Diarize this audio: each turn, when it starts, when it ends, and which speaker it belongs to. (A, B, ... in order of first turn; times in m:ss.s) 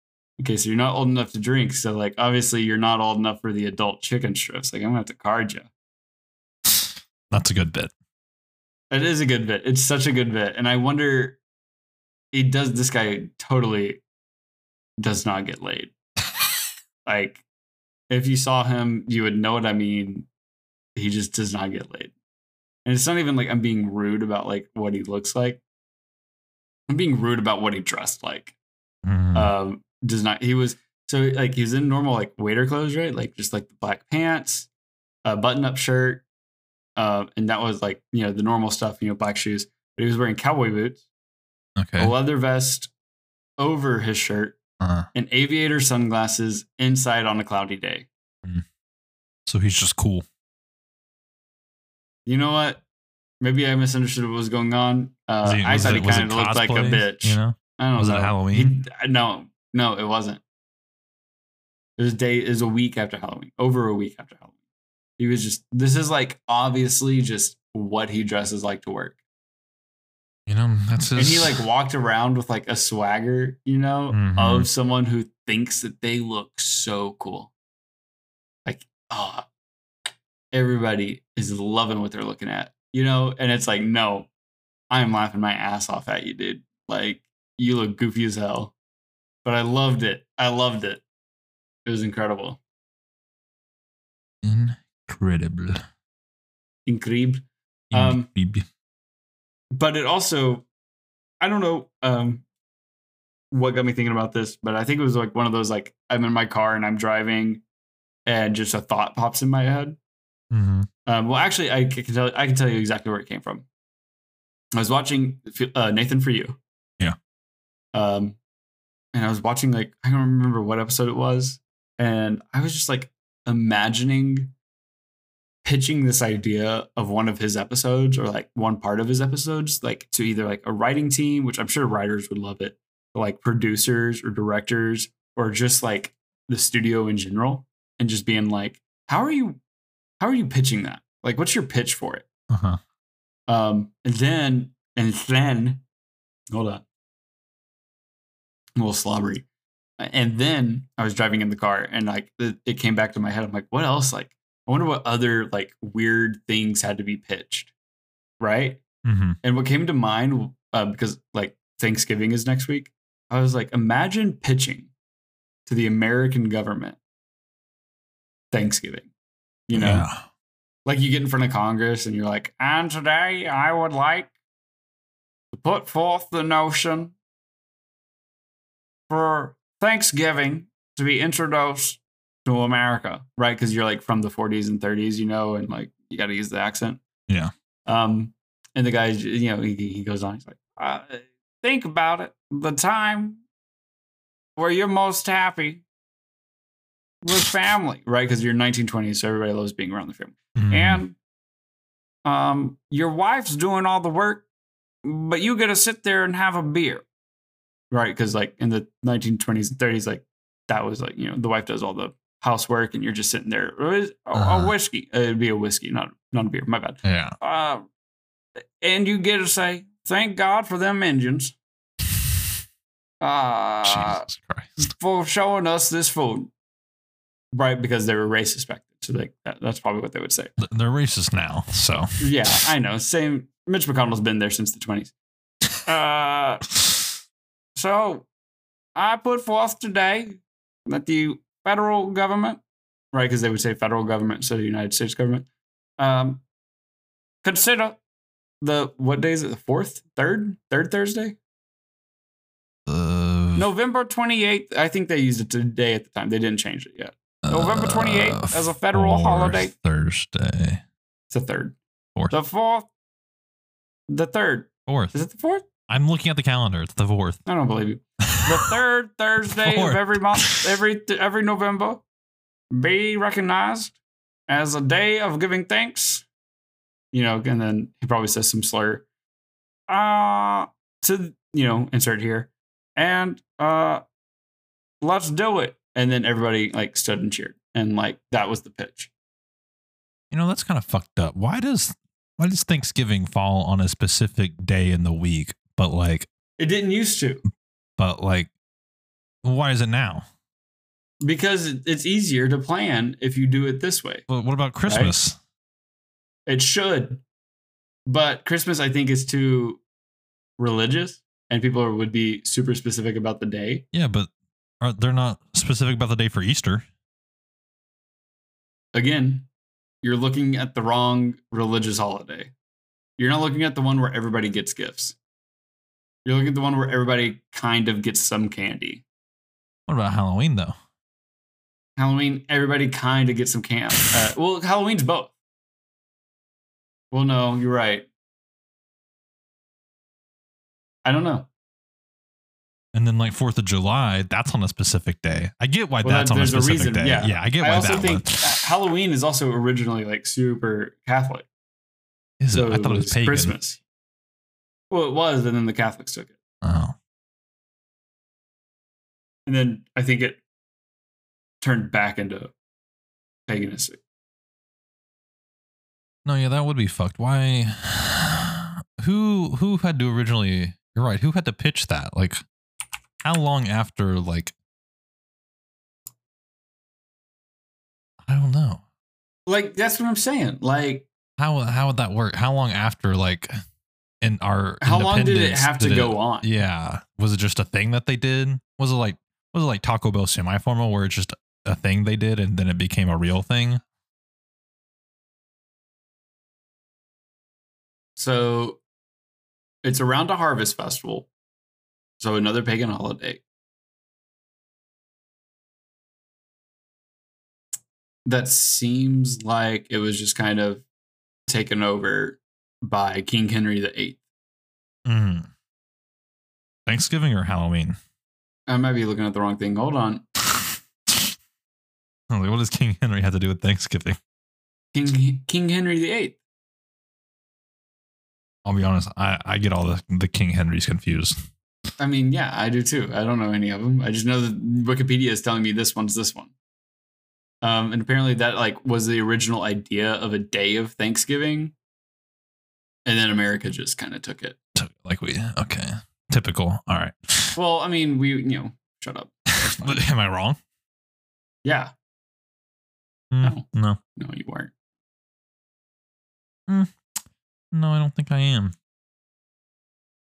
0:00.4-0:05.7 A
0:06.7-0:07.9 B
0:08.9-0:11.4 A
0:12.3-0:14.0 A
0:15.0-0:15.9 A
0:17.0-0:17.4 A
0:18.1-0:20.3 A
0:21.0-0:22.1 A
0:22.8-0:25.6 A
0:26.9-0:28.6 A
0:29.0-0:29.5 B
0:29.3-0:34.7 A
0:35.2-0:36.2 A
0:37.0-0:41.0 A
0:41.8-0:42.1 B
0:42.0-0:42.9 A
0:43.6-0:44.6 A
0:44.8-0:45.1 B
0:45.1-0:48.1 A
0:49.5-0:50.2 B
0:52.3-0:52.8 A
0:53.4-1:00.4 A
0:55.4-0:58.7 B
1:02.0-1:04.5 A
1:05.2-1:09.2 A
1:10.5-1:11.6 B
1:11.2-1:17.5 A
1:14.1-1:14.7 B
1:18.6-1:19.5 A
1:20.5-1:24.3 A
1:24.9-1:28.7 A
1:29.4-1:31.0 A
1:31.9-1:32.6 A
1:34.4-1:35.8 B
1:36.9-1:38.3 A
1:37.9-1:38.6 B
1:39.7-1:40.7 A
1:41.4-1:42.4 A
1:43.5-1:47.6 A
1:48.3-1:50.0 A
1:50.5-1:50.9 B
1:51.1-1:53.7 A
1:54.8-1:56.6 A
1:57.9-1:58.4 A
1:59.1-2:04.5 A
2:05.6-2:19.6 A
2:20.2-2:22.3 A
2:22.5-2:22.8 B
2:23.5-2:25.8 A
2:26.5-2:26.8 A
2:28.8-2:29.5 A
2:30.0-2:37.7 A
2:38.4-2:38.8 A
2:39.0-2:39.4 B
2:39.4-2:44.9 A
2:45.7-2:47.0 A
2:48.5-2:49.1 A
2:49.7-2:50.1 A
2:49.8-2:50.2 B
2:50.9-2:54.3 A
2:55.5-2:57.1 A
2:59.1-3:07.0 A
3:07.9-3:13.4 A
3:14.6-3:15.8 A
3:17.2-3:21.2 A
3:20.6-3:21.0 B
3:22.2-3:24.5 A
3:25.0-3:27.0 A
3:27.9-3:37.8 A
3:34.4-3:34.7 B
3:37.0-3:37.4 B
3:38.8-3:41.6 A
3:43.2-3:44.3 A
3:43.8-3:44.9 B
3:44.8-3:46.5 A
3:47.5-3:50.6 A
3:50.6-3:52.6 B
3:52.2-3:55.1 A
3:55.8-3:56.7 A
3:57.8-3:58.3 A
3:59.0-4:02.6 A
4:03.1-4:05.5 A
4:06.0-4:06.4 A
4:07.4-4:08.0 A
4:08.6-4:11.4 A
4:12.9-4:13.7 B
4:13.6-4:19.7 A
4:17.4-4:20.8 B
4:21.3-4:21.8 A
4:22.3-4:22.9 A
4:24.1-4:25.7 A
4:24.9-4:25.1 B
4:25.9-4:27.4 B
4:27.5-4:32.0 A
4:28.3-4:28.5 B
4:29.6-4:30.7 B
4:32.7-4:36.3 A
4:37.1-4:39.1 A
4:39.9-4:44.0 A
4:45.0-4:49.1 A
4:50.3-4:56.3 B
4:56.6-4:57.4 A
4:58.0-4:58.5 B
4:59.4-5:00.2 B
5:01.2-5:04.3 A
5:04.3-5:05.4 B
5:04.9-5:05.2 A
5:06.5-5:07.2 A
5:08.1-5:09.8 A
5:10.6-5:13.8 A
5:13.9-5:14.3 B
5:14.8-5:16.8 B
5:18.9-5:19.5 A
5:20.0-5:22.5 A
5:23.2-5:25.2 A
5:26.2-5:29.0 A
5:29.9-5:30.7 B
5:32.0-5:35.3 A
5:37.1-5:38.1 A
5:41.0-5:41.5 A
5:42.9-5:48.6 B
5:46.0-5:51.5 A
5:52.4-5:53.6 B
5:52.5-5:53.8 A
5:54.9-5:56.4 A
5:56.6-5:57.0 B
5:59.5-6:00.4 A
6:01.6-6:02.5 A
6:03.5-6:04.0 A
6:06.2-6:12.4 B
6:13.2-6:14.5 B
6:18.2-6:18.8 B
6:19.5-6:21.1 A
6:21.4-6:23.5 B
6:24.2-6:33.8 B
6:24.8-6:26.5 A
6:38.2-6:38.8 A
6:39.8-6:41.3 A
6:42.2-6:43.4 A
6:48.3-6:50.8 A
6:51.5-6:54.2 A
6:55.1-6:55.5 B
6:56.9-6:58.0 B
6:58.7-7:00.2 A
7:02.3-7:04.2 B
7:04.9-7:06.4 A
7:08.6-7:11.4 B
7:12.0-7:16.5 A
7:17.6-7:21.8 A
7:23.1-7:24.6 A
7:24.8-7:27.6 B
7:27.6-7:30.0 A
7:29.7-7:30.6 B
7:31.6-7:31.9 A
7:33.3-7:34.0 B
7:34.2-7:34.7 A
7:36.7-7:37.0 B
7:37.7-7:38.7 B